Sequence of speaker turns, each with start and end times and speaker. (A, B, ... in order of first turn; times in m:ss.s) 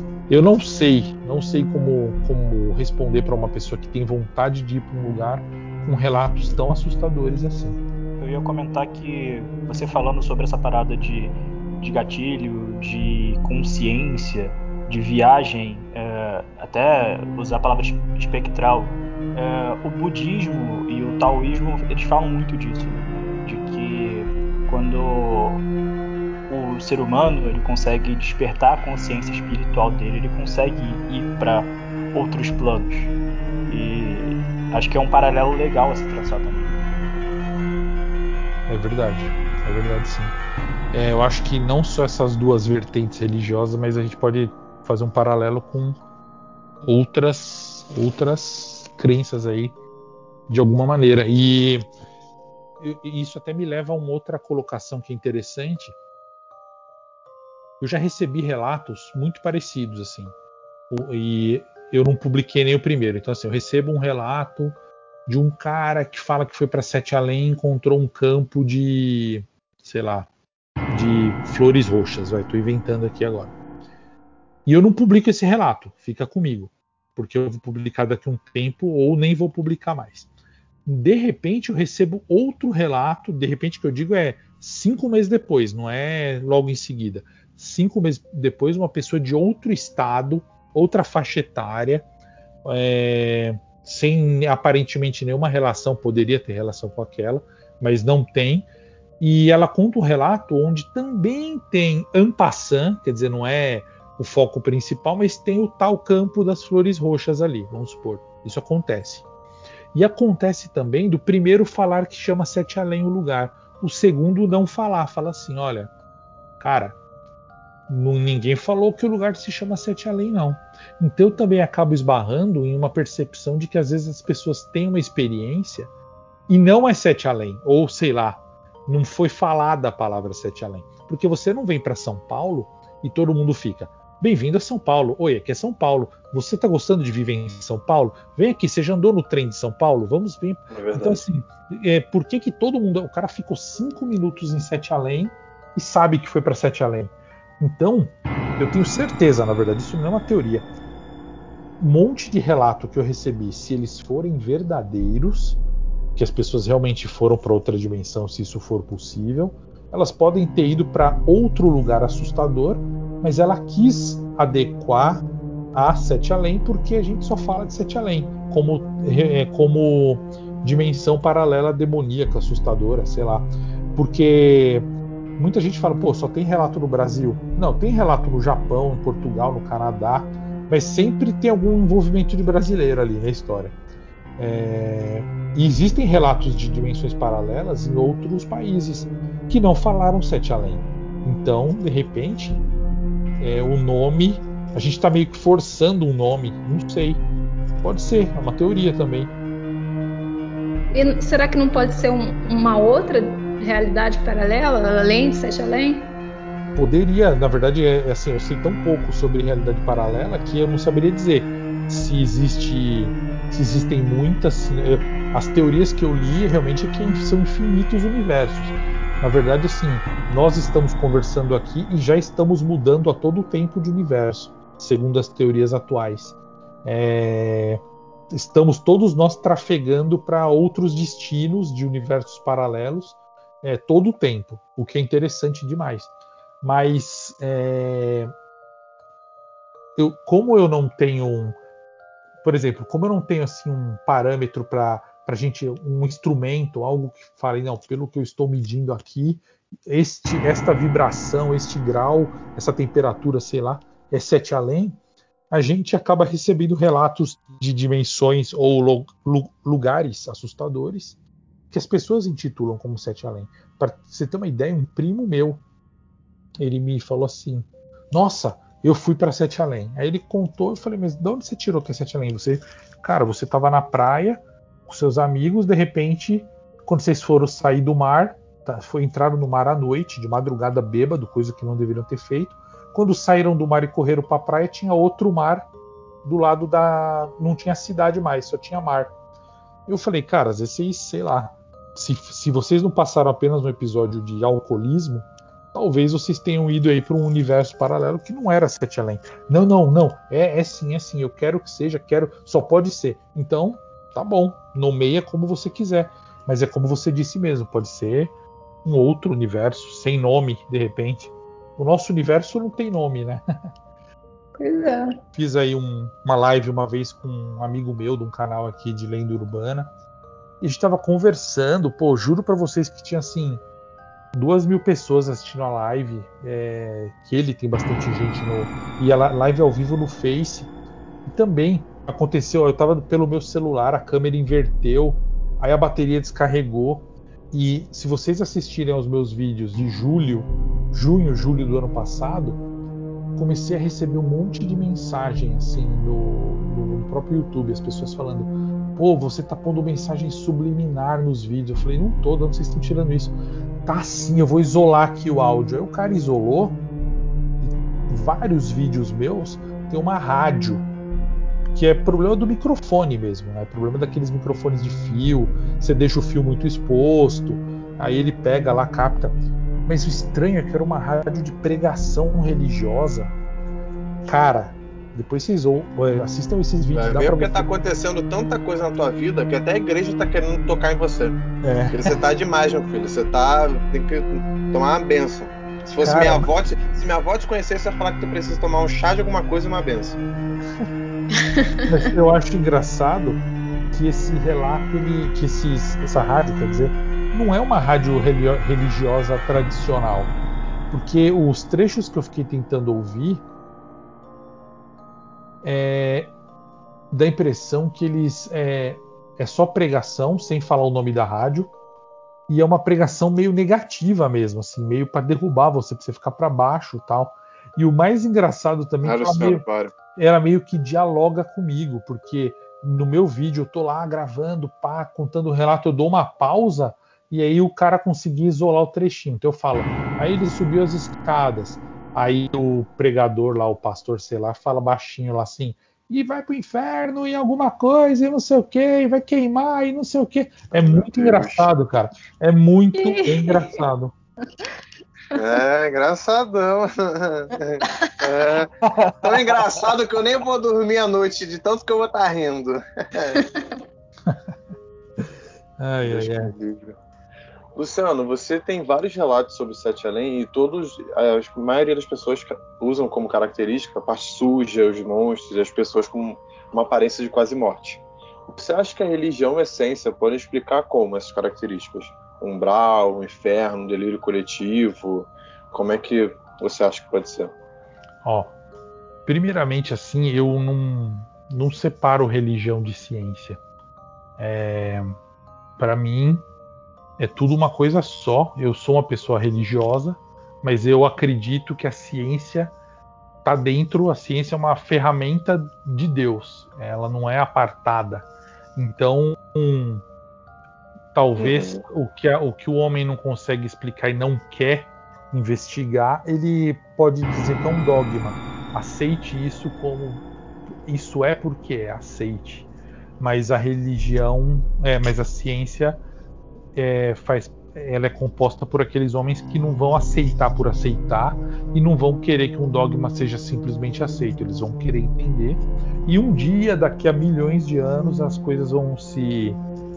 0:00.3-0:07.8 A
0:08.2-0:25.6 B
0:26.5-0:33.1 B
0:33.7-0:36.7 B
0:38.7-0:40.4 A
0:40.9-0:46.0 A
0:46.8-0:49.8 A
0:50.5-0:51.8 A
0:52.8-0:56.0 A
0:57.8-1:00.3 A
1:00.9-1:10.3 A
1:10.9-1:13.5 A
1:14.7-1:20.3 A
1:20.9-1:32.1 A
1:32.6-1:38.7 A
1:39.2-1:49.3 A
1:49.9-1:55.9 A
1:56.6-1:57.0 A
1:57.9-2:05.9 A
2:06.5-2:30.7 A
2:20.7-2:21.2 C
2:31.8-2:35.6 A
2:36.2-3:03.8 A
3:04.4-3:12.6 A
3:13.4-3:17.2 A
3:17.8-3:19.3 A
3:20.9-3:26.2 D
3:26.8-3:56.1 A
3:56.6-3:58.3 A
4:00.0-4:01.6 A
4:02.4-4:15.0 A
4:15.5-4:21.2 A
4:21.7-4:25.6 A
4:26.6-4:45.7 A
4:46.2-4:49.1 A
4:49.9-5:08.3 A
5:08.8-5:13.4 A
5:14.6-5:15.1 D
5:15.3-5:19.9 A
5:20.6-5:23.6 A
5:24.3-5:30.7 A
5:31.3-5:42.6 A
5:43.4-5:53.4 A
5:53.9-5:56.8 A
5:57.6-6:00.8 A
6:01.7-6:13.3 A
6:14.3-6:17.7 A
6:16.9-6:21.4 C
6:21.6-6:22.1 A
6:21.9-6:30.2 C
6:26.0-6:26.5 A
6:31.4-6:31.9 D
6:31.9-6:40.4 A
6:40.9-6:43.4 A
6:45.6-6:46.3 A
6:47.1-6:51.7 A
6:52.5-6:59.6 A
6:59.0-6:59.9 C
7:00.2-7:24.1 A
7:20.7-7:21.7 C
7:23.0-7:23.7 D
7:25.4-7:33.5 C
7:28.8-7:29.6 A
7:35.8-7:36.5 A
7:36.0-7:37.0 C
7:37.8-7:57.5 C
7:58.2-7:58.5 A
7:59.3-8:03.6 A
8:04.4-8:05.2 A
8:05.8-8:06.4 A
8:07.2-8:12.7 A
8:13.4-8:20.0 A
8:21.1-8:30.2 A
8:21.4-8:21.8 C
8:30.9-8:32.7 A
8:33.2-8:36.0 A
8:36.8-8:49.6 A